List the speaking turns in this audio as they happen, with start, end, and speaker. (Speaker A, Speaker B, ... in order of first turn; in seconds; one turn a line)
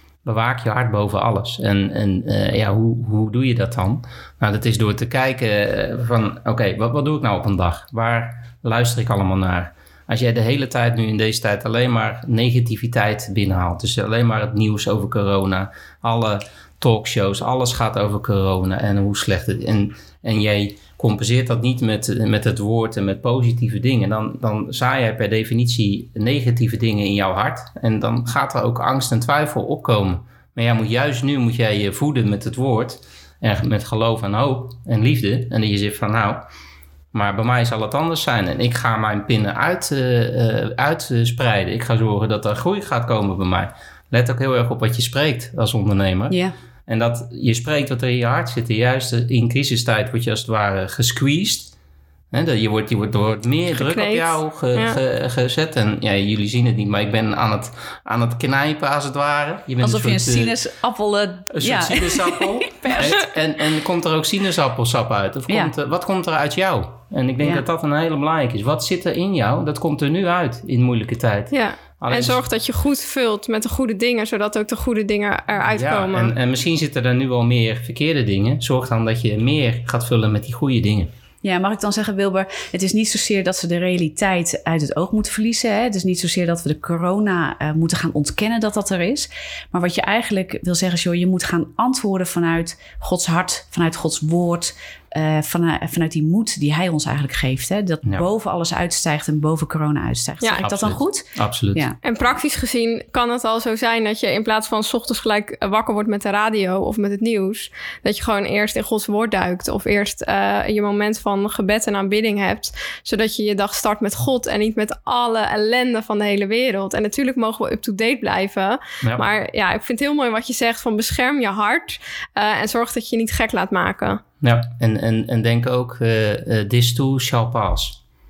Speaker A: 0.2-36.5
Speaker A: 37.1-51.7
Speaker A: 52.3-60.6
Speaker B: 53.7-55.0
Speaker C: 59.8-63.3
Speaker A: 61.5-72.4
Speaker C: 65.5-65.7
Speaker C: 67.4-67.7
Speaker B: 71.5-76.3
Speaker A: 75.7-81.1
Speaker C: 81.4-102.0
Speaker B: 100.4-100.7
Speaker A: 100.6-101.9
Speaker B: 102.0-124.2
Speaker A: 124.4-128.0